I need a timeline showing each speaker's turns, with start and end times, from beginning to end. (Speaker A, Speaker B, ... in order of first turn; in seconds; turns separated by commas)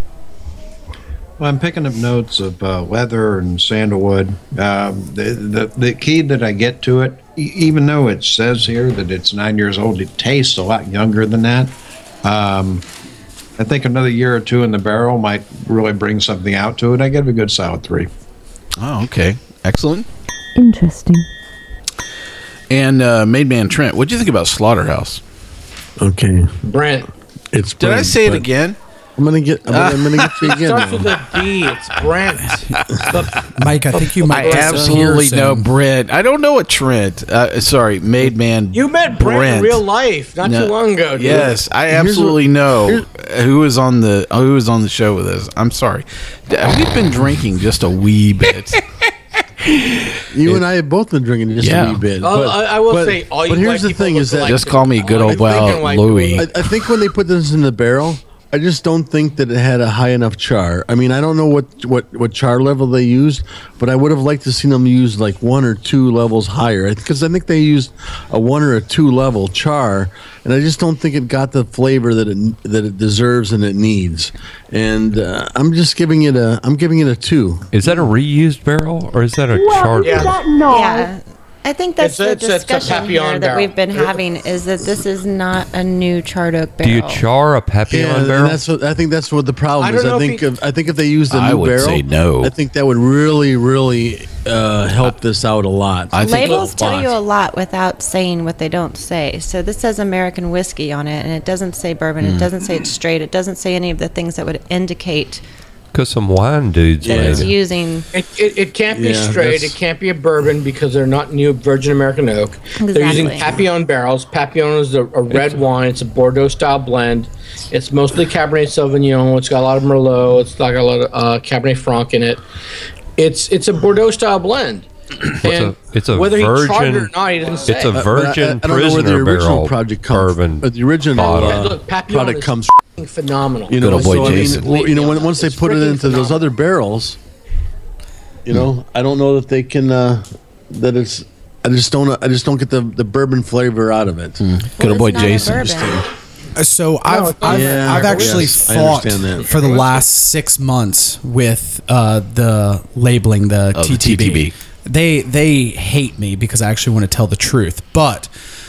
Speaker A: 1.4-12.8, Speaker A: 13.6-18.1, Speaker B: 18.8-20.1, Speaker C: 20.5-21.2, Speaker B: 22.7-25.2, Speaker D: 26.0-26.5, Speaker E: 26.6-27.1, Speaker D: 27.5-28.5, Speaker B: 27.8-28.8, Speaker D: 29.1-31.3, Speaker B: 29.7-30.2, Speaker E: 30.4-33.5, Speaker F: 33.5-35.7, Speaker B: 34.1-39.8, Speaker E: 34.3-34.8, Speaker D: 34.7-35.0, Speaker E: 38.7-41.6, Speaker B: 40.4-48.9, Speaker D: 41.3-43.0, Speaker B: 49.6-50.6, Speaker D: 50.3-54.6, Speaker B: 51.6-52.0, Speaker E: 52.2-56.5, Speaker B: 54.4-56.7, Speaker D: 55.3-55.8, Speaker D: 56.4-77.7, Speaker G: 77.7-80.4, Speaker C: 79.5-81.1, Speaker E: 80.0-80.4, Speaker H: 80.7-87.2, Speaker E: 82.0-84.2, Speaker G: 86.8-88.6, Speaker D: 87.9-97.1, Speaker E: 89.8-90.5, Speaker B: 91.3-92.5, Speaker B: 96.1-96.8, Speaker H: 96.2-105.4, Speaker E: 96.4-96.7, Speaker B: 102.2-102.5, Speaker G: 105.9-107.5, Speaker D: 107.0-107.5, Speaker H: 107.1-108.1, Speaker E: 108.1-122.4, Speaker D: 108.9-109.8, Speaker H: 112.8-113.5, Speaker E: 123.2-124.9, Speaker G: 125.4-131.8, Speaker E: 125.4-128.1, Speaker D: 127.9-132.8, Speaker E: 131.2-136.4, Speaker D: 133.7-137.2, Speaker B: 133.8-134.7, Speaker D: 138.4-144.4, Speaker B: 144.4-146.0, Speaker H: 144.8-146.0, Speaker D: 145.4-146.0, Speaker F: 146.6-158.3, Speaker E: 147.1-148.6, Speaker D: 147.4-149.5, Speaker E: 149.5-149.8, Speaker B: 153.7-154.5